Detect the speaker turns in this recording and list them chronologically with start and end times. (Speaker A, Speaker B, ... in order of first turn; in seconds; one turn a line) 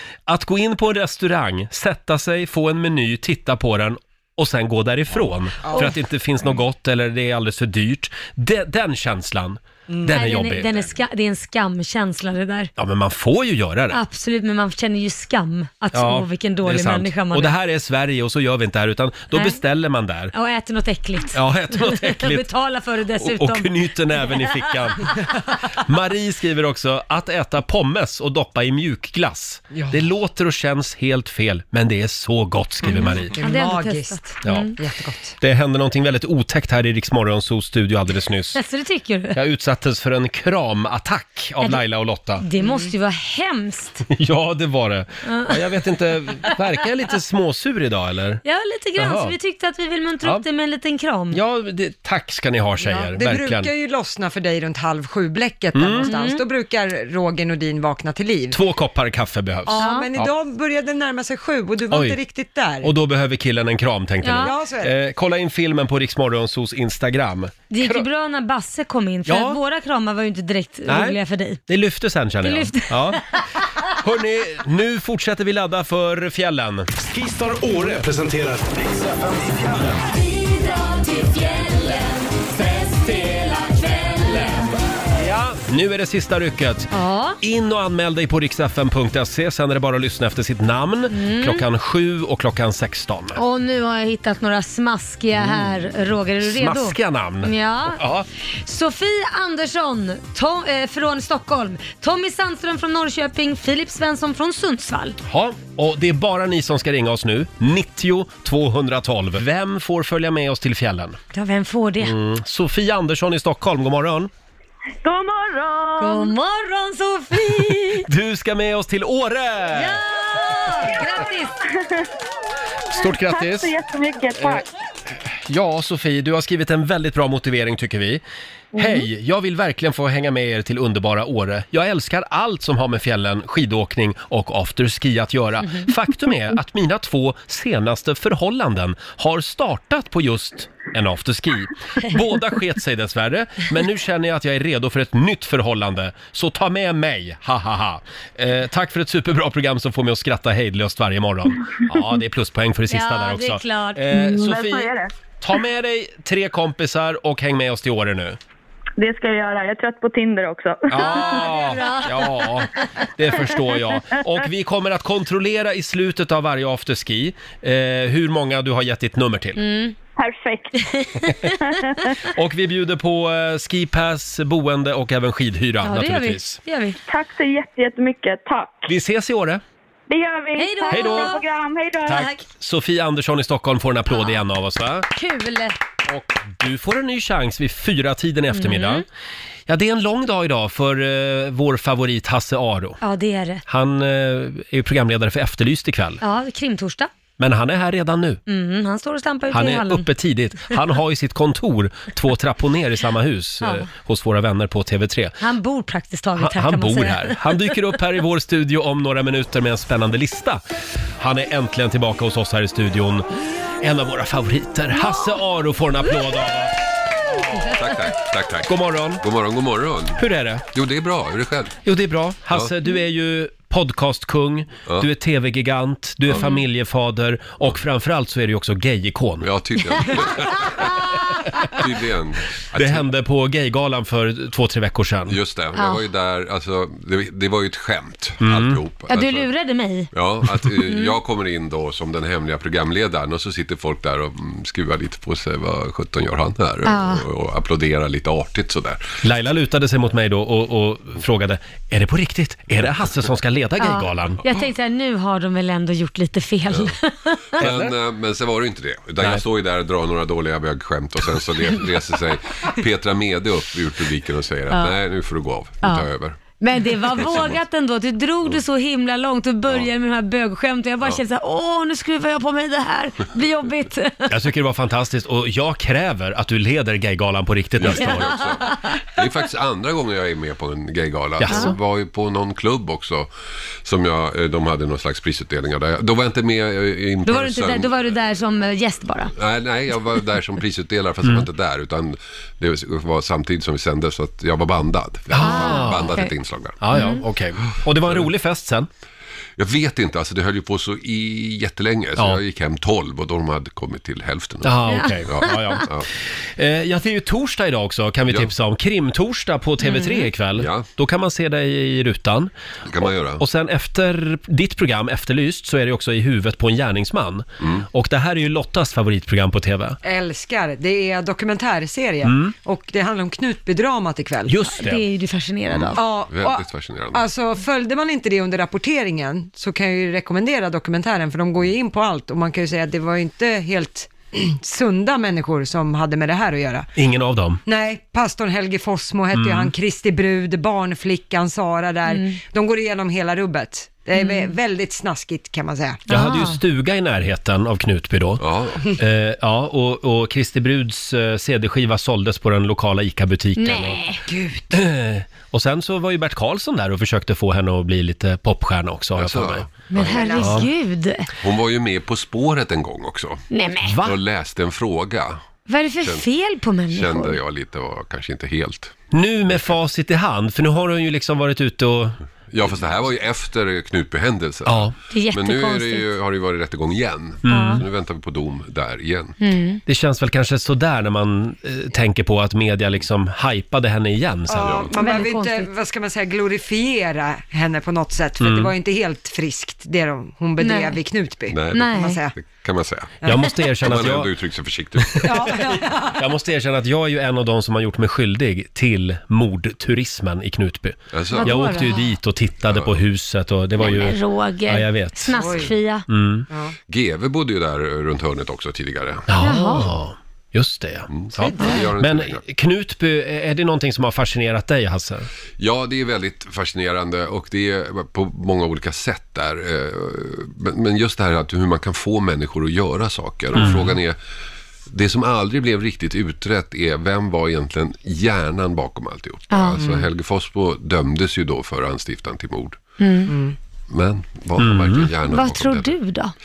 Speaker A: 0.3-10.9
Speaker B: 9.9-10.2
Speaker C: 10.1-12.7
Speaker A: 12.8-14.0
Speaker C: 13.9-17.6
Speaker A: 15.9-20.3
Speaker C: 19.3-19.6
Speaker C: 20.3-24.7
Speaker A: 21.3-22.5
Speaker A: 23.2-25.2
Speaker A: 25.8-33.4
Speaker B: 29.7-30.0
Speaker C: 32.9-34.7
Speaker B: 33.2-35.4
Speaker A: 34.4-34.7
Speaker A: 35.4-38.6
Speaker C: 38.5-39.4
Speaker A: 39.3-42.4
Speaker C: 42.4-44.0
Speaker B: 42.6-42.9
Speaker A: 44.1-48.4
Speaker C: 45.3-45.8
Speaker C: 48.5-51.4
Speaker A: 49.0-49.3
Speaker A: 51.3-53.7
Speaker B: 52.8-58.6
Speaker A: 55.8-56.1
Speaker C: 56.1-56.4
Speaker A: 58.5-60.3
Speaker B: 59.7-62.9
Speaker C: 59.8-60.1
Speaker A: 61.9-62.2
Speaker A: 62.8-68.1
Speaker C: 64.2-64.5
Speaker B: 64.3-65.0
Speaker C: 67.7-71.6
Speaker A: 69.3-69.6
Speaker A: 70.9-73.2
Speaker C: 72.4-73.4
Speaker A: 74.0-76.9
Speaker D: 77.0-80.1
Speaker C: 80.3-82.1
Speaker C: 82.8-84.6
Speaker A: 85.1-86.9
Speaker C: 86.9-87.4
Speaker A: 87.4-93.4
Speaker C: 91.1-91.6
Speaker C: 93.4-98.0
Speaker A: 95.4-95.8
Speaker A: 96.4-98.3
Speaker C: 98.6-105.2
Speaker A: 105.2-111.2
Speaker C: 111.3-112.2
Speaker A: 112.0-114.3
Speaker E: 115.0-116.3
Speaker C: 116.0-118.1
Speaker A: 118.0-120.0
Speaker C: 119.7-121.5
Speaker A: 122.9-123.7
Speaker E: 123.0-124.7
Speaker A: 124.4-124.6
Speaker A: 125.3-128.2
Speaker A: 128.8-158.4
Speaker C: 152.9-154.2
Speaker E: 154.1-155.1
Speaker E: 159.0-161.6
Speaker A: 160.9-169.6
Speaker C: 161.0-162.8
Speaker C: 169.6-169.9
Speaker E: 170.2-170.8
Speaker E: 171.6-172.0
Speaker A: 172.3-176.6
Speaker C: 175.8-177.0
Speaker E: 177.1-178.9
Speaker A: 178.9-179.6
Speaker E: 180.1-182.3
Speaker C: 180.6-181.4
Speaker A: 180.9-181.3
Speaker A: 182.1-185.1
Speaker C: 185.1-185.8
Speaker A: 186.1-189.0
Speaker C: 188.5-189.0
Speaker A: 189.7-193.0
Speaker C: 193.0-193.6
Speaker A: 193.7-196.2
Speaker C: 196.2-197.1
Speaker A: 197.4-198.4
Speaker C: 198.5-200.1
Speaker A: 199.5-205.4
Speaker C: 205.4-207.8
Speaker A: 206.4-210.6
Speaker A: 211.2-213.3
Speaker A: 213.8-217.7
Speaker F: 217.7-221.8
Speaker A: 218.7-219.2
Speaker A: 220.2-220.7
Speaker A: 221.8-229.5
Speaker F: 229.4-231.1
Speaker F: 231.7-233.1
Speaker A: 232.7-235.4
Speaker F: 235.3-239.5
Speaker C: 235.8-236.0
Speaker A: 238.4-238.8
Speaker C: 239.1-240.1
Speaker F: 240.1-249.2
Speaker C: 240.8-241.2
Speaker C: 246.8-247.3
Speaker A: 249.2-254.4
Speaker C: 253.8-257.6
Speaker F: 256.7-257.0
Speaker F: 257.6-266.4
Speaker A: 257.6-257.9
Speaker C: 264.7-265.0
Speaker C: 265.8-274.3
Speaker F: 267.1-267.6
Speaker A: 274.3-278.4
Speaker F: 277.8-283.3
Speaker C: 278.0-278.9
Speaker A: 281.4-281.8
Speaker C: 281.5-281.8
Speaker F: 283.8-288.0
Speaker C: 287.2-289.3
Speaker F: 289.3-297.0
Speaker A: 295.3-296.2
Speaker C: 295.4-296.3
Speaker A: 296.8-298.9
Speaker C: 296.9-297.2
Speaker F: 297.6-298.3
Speaker F: 299.6-306.1
Speaker A: 304.6-305.9
Speaker C: 304.9-305.8
Speaker A: 306.6-312.5
Speaker C: 309.8-310.3
Speaker F: 310.6-310.9
Speaker F: 312.9-313.4
Speaker A: 313.4-320.0
Speaker F: 317.6-317.9
Speaker B: 320.0-324.6
Speaker A: 322.2-322.5
Speaker A: 324.5-325.0
Speaker C: 324.8-326.0
Speaker F: 325.7-327.2
Speaker B: 325.9-336.9
Speaker A: 337.0-337.6
Speaker B: 337.7-346.0
Speaker A: 339.3-339.7
Speaker C: 342.1-342.4
Speaker C: 344.2-344.5
Speaker C: 346.1-346.6
Speaker A: 346.1-354.0
Speaker F: 348.4-349.0
Speaker C: 353.6-354.2
Speaker B: 354.3-354.8
Speaker A: 354.7-359.7
Speaker F: 359.2-360.5
Speaker C: 359.9-361.3
Speaker B: 360.0-360.6
Speaker A: 360.4-360.7
Speaker F: 361.4-363.4
Speaker C: 363.5-364.0
Speaker A: 363.9-364.2
Speaker F: 364.0-365.4
Speaker C: 365.7-367.4
Speaker F: 366.0-366.3
Speaker F: 366.9-369.0
Speaker A: 369.1-372.2
Speaker F: 372.5-379.4
Speaker A: 374.7-374.9
Speaker C: 375.1-376.1
Speaker A: 377.4-377.8
Speaker C: 377.5-377.8
Speaker C: 379.4-379.8
Speaker A: 379.9-384.9
Speaker B: 384.5-392.4
Speaker F: 384.6-384.9
Speaker C: 385.0-385.7
Speaker A: 388.4-388.7
Speaker C: 390.6-391.0
Speaker F: 391.5-393.2
Speaker C: 391.7-392.2
Speaker A: 393.2-394.3
Speaker F: 393.8-395.4
Speaker A: 395.1-405.4
Speaker B: 395.2-396.2
Speaker F: 401.1-401.8
Speaker C: 401.3-402.1
Speaker F: 402.6-403.0
Speaker C: 403.8-406.1
Speaker B: 405.4-405.7
Speaker A: 406.1-406.5
Speaker B: 406.5-406.8
Speaker F: 406.9-409.3
Speaker A: 409.3-415.3
Speaker C: 409.4-409.9
Speaker F: 411.1-412.4
Speaker B: 411.4-411.8
Speaker C: 411.6-411.9
Speaker F: 415.6-424.2
Speaker A: 423.6-423.9
Speaker F: 424.9-432.8
Speaker C: 429.5-429.9
Speaker C: 433.0-433.4
Speaker B: 433.3-433.6
Speaker F: 433.9-436.0
Speaker A: 434.6-435.1
Speaker C: 435.3-436.3